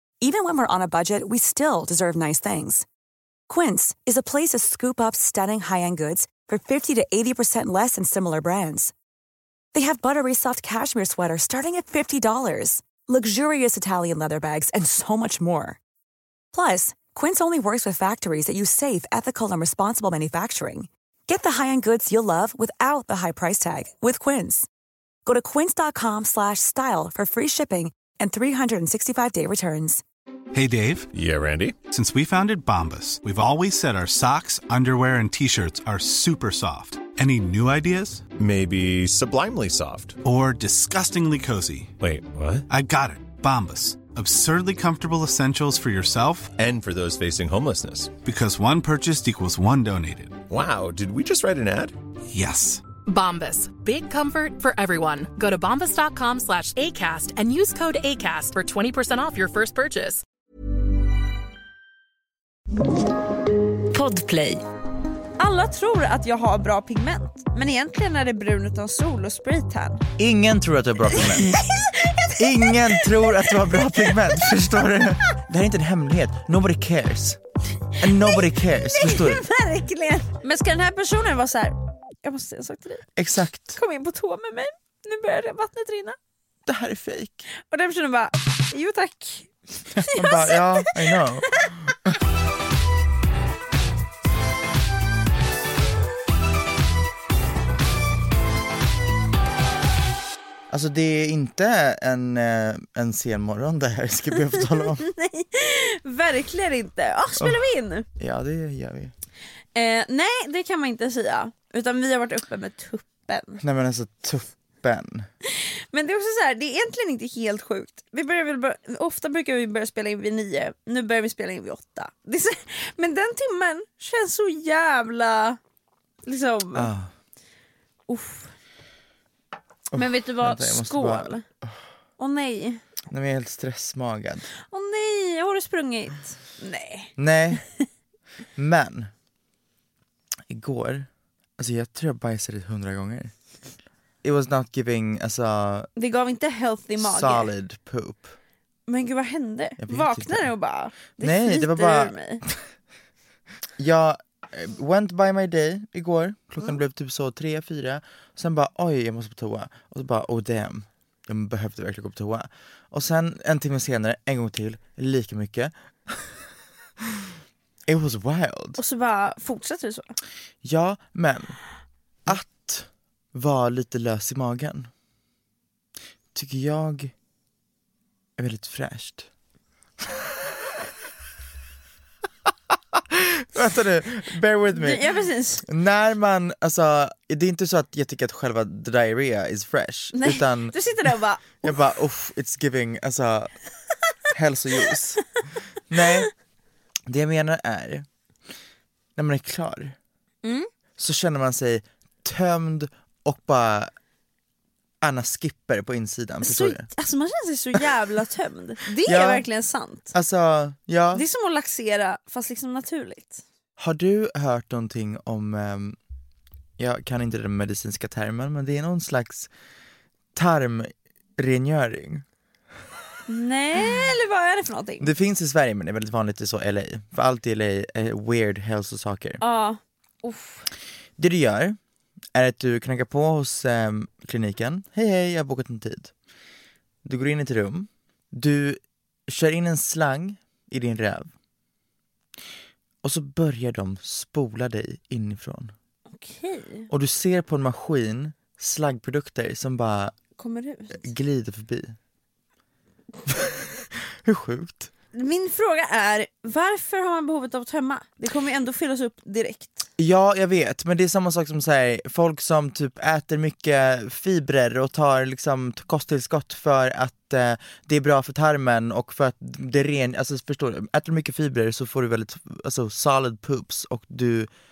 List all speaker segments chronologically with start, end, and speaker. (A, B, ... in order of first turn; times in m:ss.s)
0:00.2-0:02.8 A
0:03.5-0:08.9 A
0:09.7-0:15.8 A
0:16.5-0:24.7 A
0:25.2-0:30.0 A
0:30.5-0:31.1 B
0:31.1-0:31.8 C
0:31.9-0:38.2 B
0:38.4-0:40.2 C
0:40.2-0:41.9 B
0:42.0-0:42.6 C
0:42.7-0:46.5 B
0:46.6-0:48.2 C
0:48.2-0:50.5 B
0:50.5-0:52.0 C
0:52.3-0:52.8 B
0:53.1-1:00.2 D
1:05.4-1:10.0 E
1:10.2-1:11.6 F
1:11.1-1:14.5 E
1:12.4-1:17.4 F
1:18.0-1:23.1 E
1:18.0-1:19.4 F
1:23.2-1:23.8 F
1:23.7-1:26.2 E
1:26.6-1:27.4 F
1:27.7-1:31.7 E
1:30.1-1:32.1 F
1:40.7-1:45.0 F
1:44.8-1:48.1 E
1:48.2-1:49.1 F
1:49.7-1:53.6 E
1:53.6-1:55.3 F
1:55.4-2:05.6 E
2:06.2-2:06.9 E
2:06.7-2:07.1 F
2:08.1-2:08.5 E
2:09.9-2:11.8 F
2:09.9-2:11.4 E
2:12.2-2:12.8 E
2:13.1-2:14.4 F
2:14.7-2:17.6 E
2:17.2-2:17.6 F
2:18.6-2:19.1 F
2:20.5-2:23.3 F
2:24.2-2:25.9 F
2:26.0-2:27.5 E
2:27.0-2:28.3 F
2:28.9-2:32.4 E
2:29.8-2:30.5 F
2:31.2-2:32.6 F
2:33.8-2:46.2 F
2:47.9-2:48.8 F
2:48.8-2:50.2 E
2:50.6-2:51.6 F
2:52.2-2:54.9 F
2:56.3-2:57.1 F
2:58.4-2:59.3 F
3:02.9-3:05.0 F
3:04.7-3:05.6 E
3:05.6-3:11.1 F
3:10.1-3:11.7 E
3:11.6-3:13.5 F
3:14.3-3:15.2 F
3:15.9-3:16.3 F
3:17.1-3:18.0 F
3:19.2-3:20.0 F
3:20.4-3:20.7 E
3:21.0-3:23.9 F
3:25.0-3:26.9 F
3:26.4-3:30.1 E
3:29.0-3:29.4 F
3:30.1-3:31.2 F
3:31.1-3:33.4 E
3:33.8-3:36.0 F
3:36.8-3:39.5 F
3:40.3-3:42.2 F
3:43.3-3:45.1 E
3:45.0-3:49.4 F
3:49.4-3:50.7 E
3:51.2-3:51.8 F
3:52.3-3:56.1 F
3:57.0-4:01.3 F
4:03.0-4:05.7 F
4:06.1-4:06.9 E
4:06.9-4:10.1 F
4:10.4-4:11.1 E
4:10.9-4:12.0 F
4:13.3-4:14.9 F
4:15.1-4:19.9 E
4:20.0-4:34.5 F